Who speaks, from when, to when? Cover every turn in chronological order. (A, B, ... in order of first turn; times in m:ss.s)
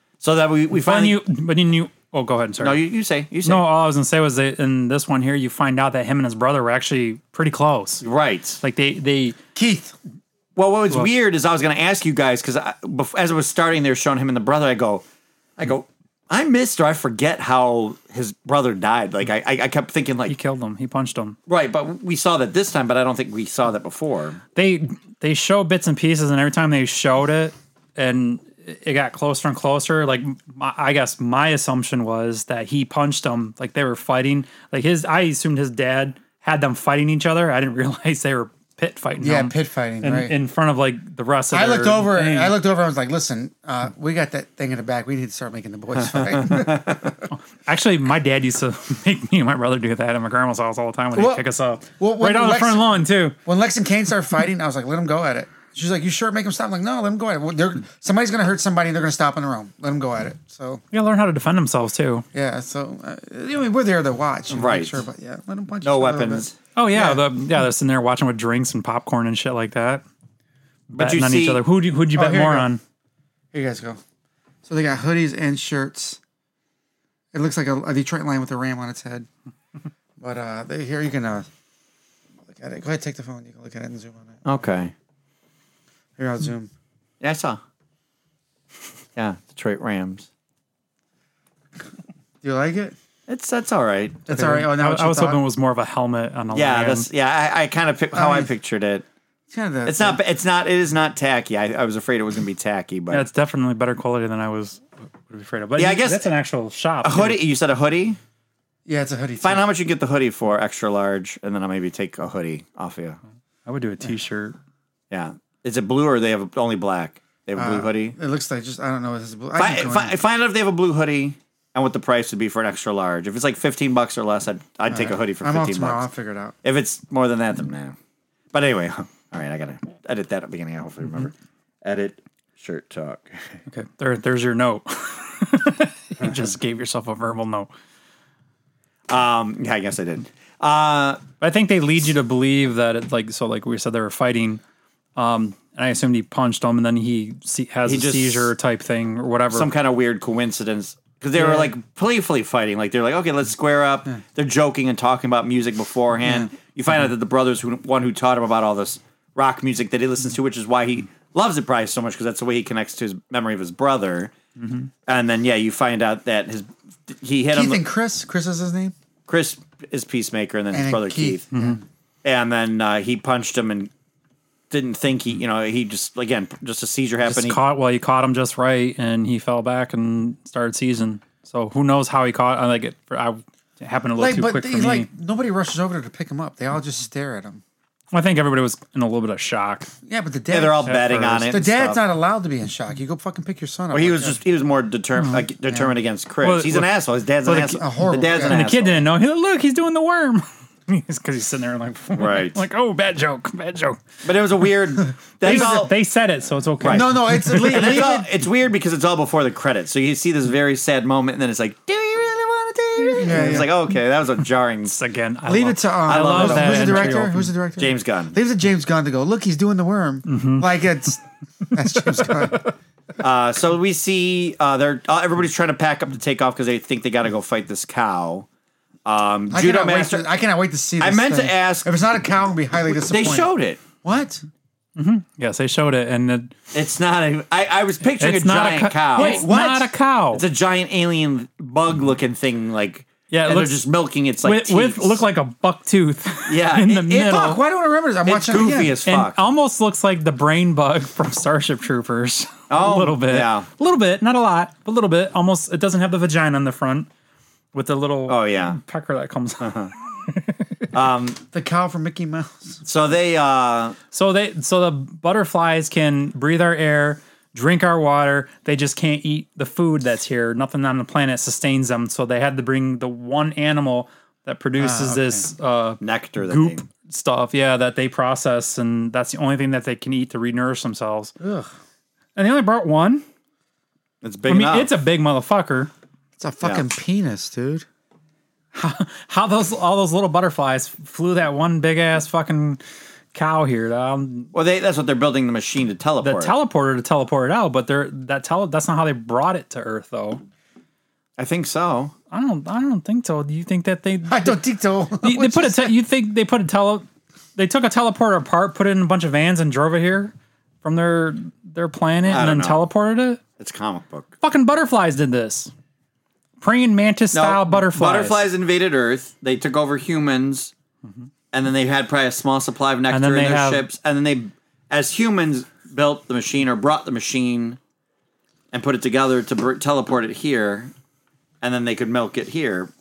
0:00.2-0:01.2 A
0:00.7-0:02.8 B
0:02.6-0:03.7 A
0:03.4-0:08.0 B
0:08.0-0:08.6 A
0:08.6-0:09.4 B
0:09.5-0:09.9 C
0:10.6-0:15.0 A
0:15.6-0:20.4 A
0:20.3-0:21.4 B
0:21.5-0:24.4 A
0:24.5-0:42.6 B
0:39.2-0:40.4 C
0:41.5-0:47.2 C
0:46.3-0:47.0 A
0:47.3-0:53.4 B
0:51.1-0:51.4 C
0:52.0-1:00.8 C
1:00.9-1:02.2 B
1:02.3-1:07.2 C
1:04.5-1:05.0 A
1:05.8-1:06.5 A
1:06.8-1:10.0 B
1:10.9-1:12.8 B
1:10.9-1:11.6 A
1:12.1-1:12.7 C
1:13.5-1:14.0 C
1:14.6-1:16.2 C
1:17.3-1:19.3 C
1:20.2-1:21.5 C
1:22.5-1:24.4 C
1:24.4-1:24.9 A
1:26.2-1:26.7 C
1:27.2-1:27.6 A
1:29.2-1:30.3 A
1:32.4-1:32.9 C
1:33.3-1:34.3 A
1:34.3-1:35.4 C
1:34.3-1:37.1 B
1:36.5-1:39.0 A
1:38.1-1:38.5 C
1:39.5-1:40.2 C
1:39.8-1:43.2 A
1:43.1-1:47.4 B
1:45.8-1:46.3 A
1:47.0-1:48.2 A
1:48.8-1:49.7 C
1:49.4-1:53.2 A
1:53.6-1:54.6 B
1:55.1-1:58.1 A
1:57.5-2:00.1 C
1:59.6-2:06.0 A
2:04.9-2:06.5 C
2:06.6-2:08.0 A
2:08.5-2:11.3 A
2:11.8-2:13.6 A
2:13.7-2:17.7 B
2:19.1-2:21.2 A
2:21.4-2:24.6 B
2:25.2-2:29.7 B
2:27.8-2:28.5 A
2:29.5-2:44.3 A
2:31.4-2:31.7 C
2:45.0-2:47.8 A
2:47.5-2:48.9 C
2:49.3-2:51.5 A
2:50.7-2:51.8 C
2:51.5-2:51.8 B
2:52.2-2:53.9 A
2:54.7-2:57.6 A
2:57.2-3:05.1 B
3:04.2-3:07.6 C
3:08.1-3:09.9 B
3:10.0-3:10.9 C
3:10.5-3:12.0 A
3:10.8-3:11.5 B
3:11.4-3:14.4 C
3:13.9-3:19.0 A
3:15.2-3:15.4 B
3:16.4-3:16.9 B
3:17.4-3:17.8 B
3:17.7-3:18.6 C
3:18.4-3:24.0 B
3:22.2-3:22.6 A
3:24.2-3:25.9 A
3:25.4-3:27.7 B
3:26.8-3:35.0 A
3:26.8-3:28.3 C
3:33.1-3:33.7 C
3:34.8-3:37.5 B
3:35.4-3:41.2 C
3:36.0-3:37.2 A
3:37.8-3:38.4 A
3:40.3-3:40.7 B
3:41.6-3:42.6 B
3:41.7-3:42.6 C
3:43.2-3:48.4 A
3:49.0-3:50.2 A
3:49.5-3:53.5 C
3:51.0-3:51.9 A
3:53.0-3:53.8 A
3:54.0-3:54.4 C
3:55.0-3:56.5 B
3:56.7-3:59.4 A
3:58.2-4:00.4 B
3:59.1-3:59.9 C
4:00.3-4:05.2 A
4:03.3-4:03.8 B
4:04.4-4:07.6 B
4:06.5-4:07.6 A
4:07.2-4:09.0 C
4:08.3-4:09.4 A
4:09.0-4:17.1 B
4:12.7-4:13.7 A
4:17.7-4:20.8 B
4:18.3-4:18.8 A
4:19.6-4:19.9 A
4:20.9-4:21.4 A
4:21.5-4:22.8 C
4:22.8-4:24.0 A
4:24.1-4:41.3 B
4:34.8-4:35.5 C
4:36.0-4:36.8 A
4:41.4-4:41.7 C
4:42.4-4:43.2 B
4:44.2-4:44.9 A
4:44.5-4:45.9 B
4:46.4-4:47.8 C
4:48.7-4:52.8 B
4:53.3-4:54.5 B
4:54.5-4:56.5 A
4:56.2-5:00.4 B
5:01.4-5:02.1 A
5:02.3-5:04.6 B
5:04.3-5:05.9 C
5:05.2-5:13.4 B
5:12.3-5:12.8 A
5:13.6-5:14.3 A
5:14.4-5:15.7 B
5:16.6-5:18.4 B
5:17.3-5:20.7 A
5:21.5-5:27.8 A
5:23.1-5:23.8 B
5:28.7-5:30.9 A
5:31.6-5:32.9 A